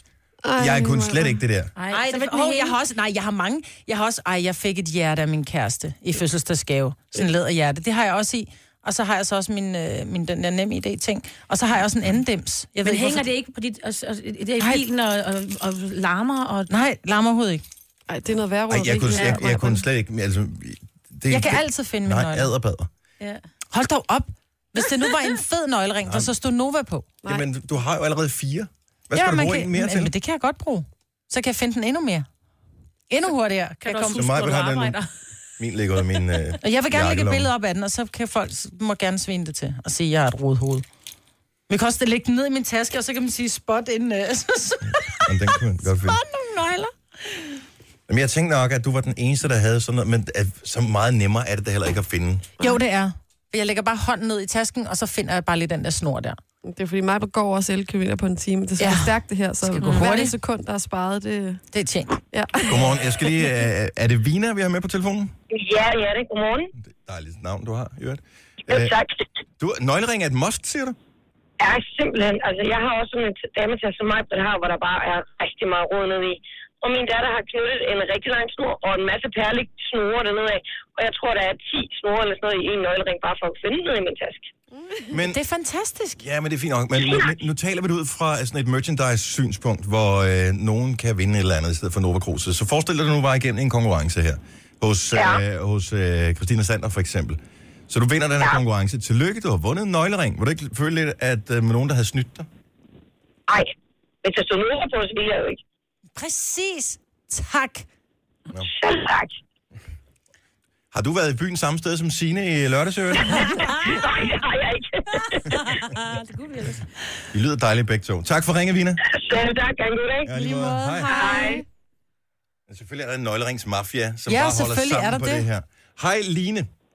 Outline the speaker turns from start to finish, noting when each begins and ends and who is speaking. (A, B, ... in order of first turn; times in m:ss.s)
0:00.4-0:01.4 A
0:00.6-0:01.7 B
0:01.8-0:02.8 C
0:01.9-0:13.3 D
0:12.8-0:16.7 C
0:16.7-0:17.6 D
0:18.1-0:19.8 A
0:18.7-0:22.9 B
0:21.3-0:22.5 D
0:23.7-0:27.1 D
0:26.0-0:26.3 B
0:27.2-0:30.1 B
0:29.1-0:32.2 D
0:33.1-0:34.2 D
0:33.8-0:35.1 C
0:34.1-0:35.0 B
0:35.6-0:37.5 B
0:36.6-0:40.8 D
0:41.7-0:45.3 D
0:45.2-0:46.2 B
0:45.8-0:47.5 D
0:48.1-0:52.5 B
0:52.6-0:56.4 D
0:56.6-1:01.6 A
0:58.8-1:00.3 D
0:59.8-1:00.1 C
1:01.7-1:02.2 D
1:02.3-1:03.3 A
1:02.7-1:05.3 B
1:05.5-1:06.7 E
1:07.0-1:09.0 B
1:08.7-1:09.2 E
1:09.6-1:11.0 B
1:11.6-1:24.5 E
1:25.1-1:25.4 B
1:25.3-1:26.2 D
1:26.2-1:42.5 B
1:35.2-1:35.4 E
1:44.2-1:45.6 E
1:46.2-1:47.8 D
1:48.6-1:49.4 E
1:50.9-1:53.7 B
1:53.8-1:55.4 E
1:55.5-1:56.9 C
1:57.3-1:59.0 B
1:59.0-2:00.3 E
2:00.2-2:01.2 B
2:00.4-2:01.4 D
2:00.4-2:01.6 A
2:01.1-2:01.6 E
2:02.7-2:06.7 B
2:04.3-2:05.4 D